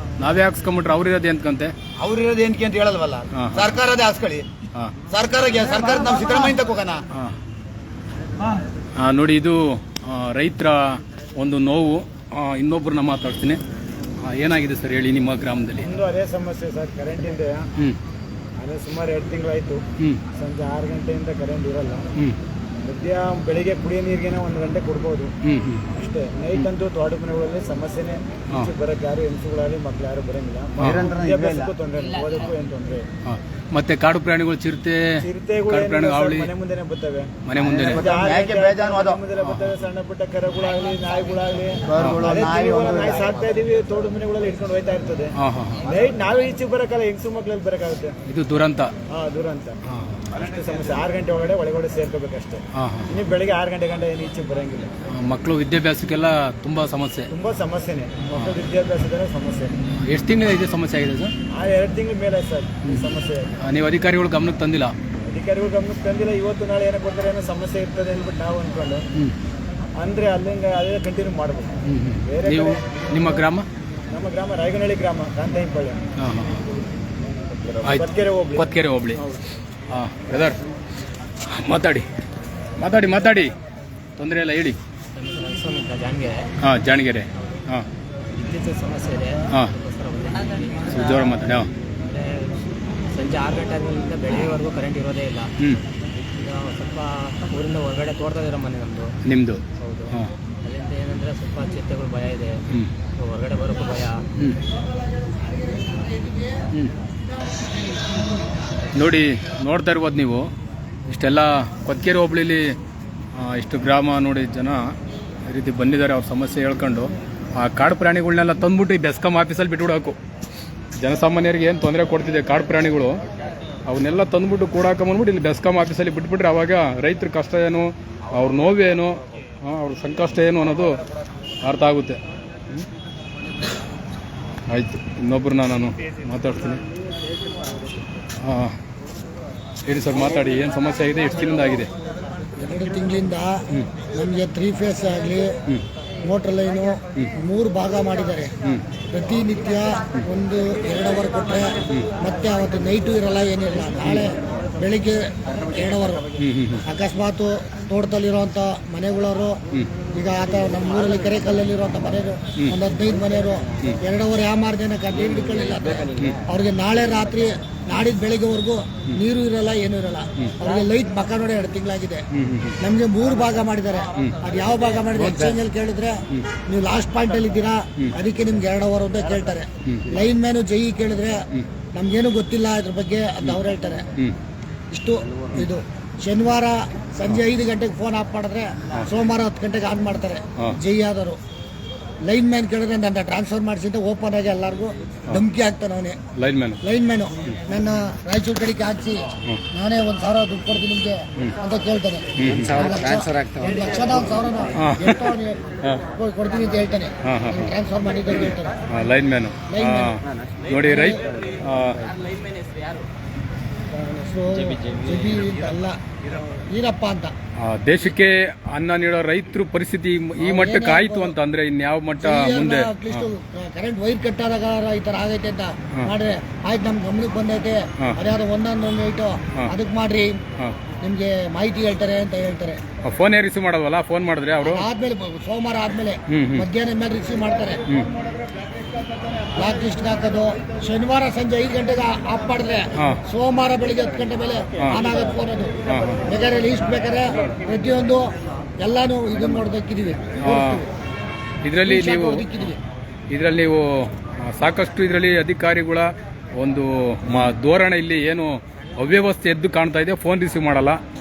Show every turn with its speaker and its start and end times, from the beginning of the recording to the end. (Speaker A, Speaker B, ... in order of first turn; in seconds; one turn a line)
Speaker A: 0.2-1.7
Speaker B: 2.0-4.5
Speaker A: 3.3-3.8
Speaker B: 5.1-7.0
Speaker A: 9.0-13.6
Speaker A: 14.2-15.9
Speaker C: 15.8-17.7
Speaker C: 18.6-22.1
Speaker C: 22.8-25.3
Speaker A: 25.4-25.8
Speaker C: 25.9-33.0
Speaker A: 30.8-31.1
Speaker B: 30.8-31.7
Speaker A: 33.2-36.5
Speaker C: 35.2-45.3
Speaker A: 37.5-38.0
Speaker B: 37.6-39.2
Speaker A: 39.4-39.7
Speaker B: 41.9-43.2
Speaker A: 45.4-45.8
Speaker C: 45.9-48.1
Speaker A: 48.3-48.9
Speaker C: 49.1-49.8
Speaker A: 49.9-50.2
Speaker C: 50.3-54.9
Speaker A: 52.8-53.1
Speaker A: 55.1-57.3
Speaker C: 57.3-59.8
Speaker A: 60.0-61.3
Speaker C: 61.5-63.6
Speaker A: 63.6-64.9
Speaker C: 65.3-69.0
Speaker C: 70.0-72.8
Speaker A: 71.8-73.7
Speaker C: 74.1-76.0
Speaker A: 76.2-76.6
Speaker C: 77.6-78.7
Speaker A: 77.8-79.2
Speaker A: 79.9-80.6
Speaker A: 81.5-82.1
Speaker A: 82.8-83.5
Speaker A: 84.2-84.8
Speaker D: 85.1-86.5
Speaker A: 86.6-87.9
Speaker D: 87.3-87.6
Speaker D: 88.3-91.2
Speaker A: 90.9-91.7
Speaker D: 92.0-95.5
Speaker D: 96.3-99.1
Speaker A: 99.2-100.3
Speaker D: 99.8-102.6
Speaker D: 103.2-104.2
Speaker E: 105.5-106.6
Speaker A: 108.9-110.5
Speaker A: 111.1-112.7
Speaker A: 113.3-114.9
Speaker A: 115.5-120.2
Speaker A: 121.0-123.2
Speaker A: 123.9-130.9
Speaker A: 131.6-132.2
Speaker A: 134.7-136.8
Speaker A: 138.4-138.8
Speaker A: 139.8-141.9
Speaker E: 142.6-143.6
Speaker E: 144.1-145.5
Speaker E: 146.2-148.5
Speaker E: 149.1-156.3
Speaker A: 156.4-156.8
Speaker E: 156.8-159.6
Speaker E: 160.1-172.2
Speaker A: 172.3-172.8
Speaker E: 172.8-181.4
Speaker E: 181.9-184.1
Speaker E: 184.9-191.4
Speaker E: 192.3-196.2
Speaker A: 196.3-196.8
Speaker E: 196.8-205.6
Speaker A: 202.4-202.9
Speaker A: 204.8-206.0
Speaker E: 206.1-208.8
Speaker A: 207.2-207.7
Speaker A: 208.9-212.0
Speaker E: 209.7-210.2
Speaker E: 210.8-211.2
Speaker E: 213.9-216.0
Speaker E: 216.7-217.3
Speaker A: 217.6-223.3
Speaker E: 220.4-221.3
Speaker E: 222.2-230.4
Speaker E: 231.0-232.8
Speaker A: 233.0-234.8
Speaker E: 234.7-237.8
Speaker A: 236.3-236.7
Speaker E: 239.6-250.9
Speaker A: 242.9-243.2
Speaker A: 245.9-246.2
Speaker A: 250.4-250.8
Speaker A: 251.6-252.4
Speaker E: 251.8-252.8
Speaker A: 253.3-261.0